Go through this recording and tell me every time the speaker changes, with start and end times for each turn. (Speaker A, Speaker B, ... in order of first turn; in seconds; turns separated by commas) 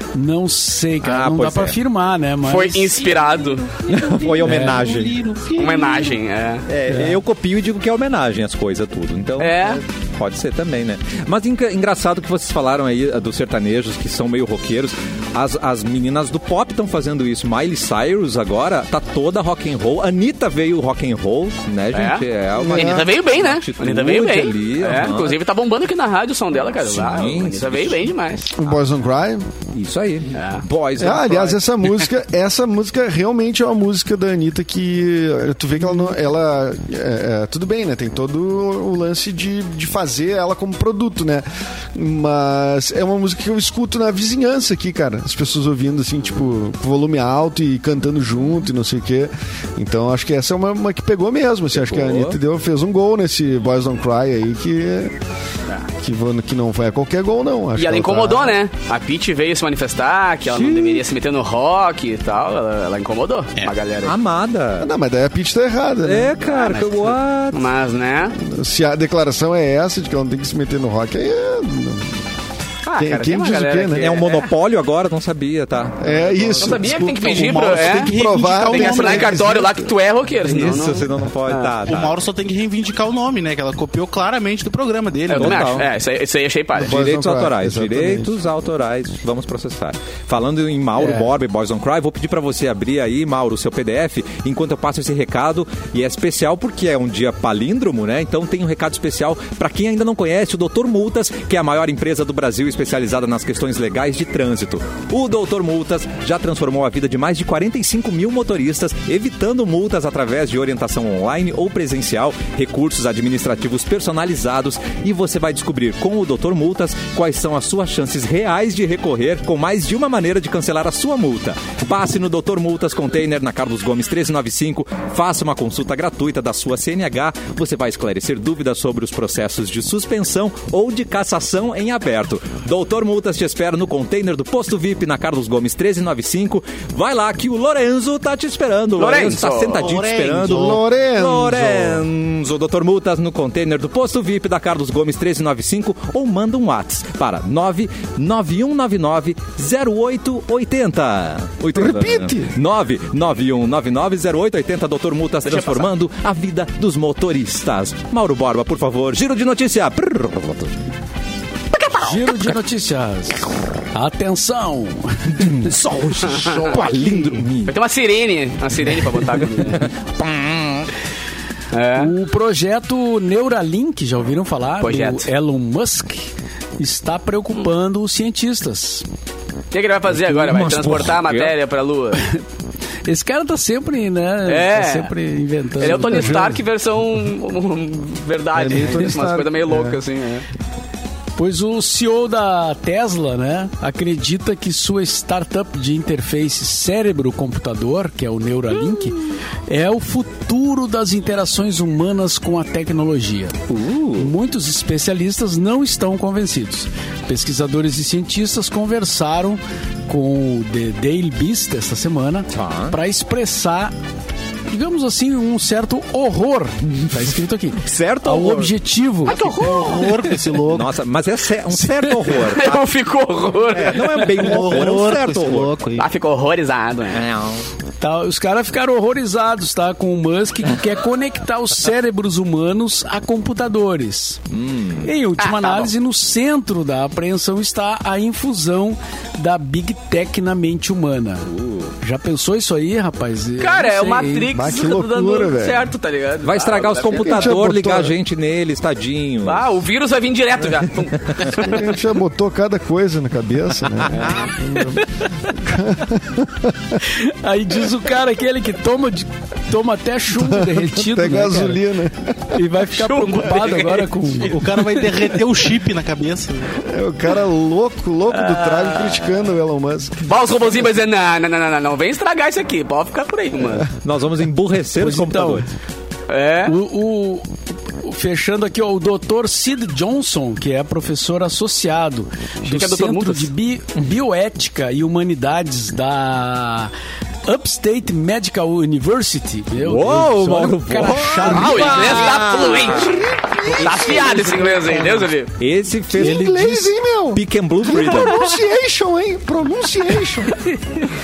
Speaker A: 0.1-3.1, Speaker B: 1.0-1.8, Speaker C: 2.4-3.7, Speaker D: 3.9-6.2, Speaker B: 3.9-5.2, Speaker A: 4.4-4.9, Speaker C: 5.5-6.7, Speaker B: 6.7-25.4, Speaker A: 6.9-7.2, Speaker C: 9.4-9.8, Speaker C: 21.9-28.6, Speaker E: 22.6-23.1, Speaker B: 26.8-28.1, Speaker E: 28.5-29.4, Speaker B: 29.7-31.6, Speaker C: 30.3-30.6, Speaker E: 31.0-55.2, Speaker B: 51.7-52.4, Speaker E: 56.0-58.6, Speaker C: 57.8-64.1, Speaker B: 60.5-61.0, Speaker B: 64.0-64.9, Speaker E: 64.8-66.3, Speaker B: 66.0-67.6, Speaker C: 66.4-68.4, Speaker E: 68.3-72.2, Speaker C: 72.8-74.5, Speaker E: 73.0-74.1, Speaker B: 74.0-76.8, Speaker E: 76.0-79.9, Speaker C: 76.6-78.1, Speaker D: 77.2-79.4, Speaker C: 78.7-81.8, Speaker B: 80.4-82.2, Speaker D: 81.8-85.7, Speaker C: 85.3-87.0, Speaker B: 85.3-85.9, Speaker E: 86.7-88.3, Speaker B: 86.8-160.8, Speaker C: 91.0-91.2, Speaker C: 139.0-139.9, Speaker D: 139.8-140.8, Speaker E: 140.4-142.1, Speaker E: 151.7-152.5, Speaker C: 155.4-155.9, Speaker C: 161.7-162.4, Speaker A: 161.9-165.5, Speaker B: 165.3-167.7, Speaker C: 166.2-166.9, Speaker A: 166.8-167.3, Speaker C: 167.6-169.9, Speaker B: 168.9-170.9, Speaker C: 171.7-172.1, Speaker A: 171.9-179.1, Speaker C: 174.8-175.3, Speaker C: 179.7-182.2, Speaker B: 180.1-181.5, Speaker A: 183.1-186.6, Speaker C: 184.4-185.1, Speaker C: 185.8-190.4, Speaker E: 188.5-190.0, Speaker A: 191.3-213.9, Speaker B: 203.7-204.3, Speaker B: 212.5-213.0, Speaker A: 214.7-219.7, Speaker B: 216.9-218.7, Speaker C: 219.2-220.3, Speaker D: 219.4-220.9, Speaker B: 220.6-222.8, Speaker C: 222.0-224.8, Speaker B: 223.7-225.8, Speaker D: 224.4-226.0, Speaker C: 225.9-227.2, Speaker B: 227.1-227.6, Speaker A: 228.0-234.4, Speaker B: 234.5-235.1, Speaker A: 235.0-241.5, Speaker C: 235.4-235.9, Speaker B: 241.4-241.9, Speaker A: 242.0-244.5, Speaker C: 243.6-247.5, Speaker E: 244.5-245.8, Speaker B: 246.4-249.7, Speaker E: 247.1-248.1, Speaker C: 249.4-251.9, Speaker B: 250.7-251.6, Speaker E: 251.6-257.0, Speaker B: 254.1-254.4, Speaker A: 257.0-261.8, Speaker E: 260.3-262.6, Speaker A: 262.5-264.6, Speaker C: 262.9-265.1, Speaker D: 264.4-266.8, Speaker E: 266.8-270.2, Speaker C: 268.4-269.3, Speaker C: 270.2-273.9, Speaker B: 274.0-275.6, Speaker A: 274.9-275.7, Speaker C: 276.3-276.7, Speaker A: 276.6-286.9, Speaker C: 282.6-283.5, Speaker A: 287.4-292.4, Speaker B: 289.8-293.1, Speaker C: 291.4-295.5, Speaker E: 292.6-295.2, Speaker B: 293.8-294.6, Speaker B: 295.6-298.5, Speaker E: 296.1-300.6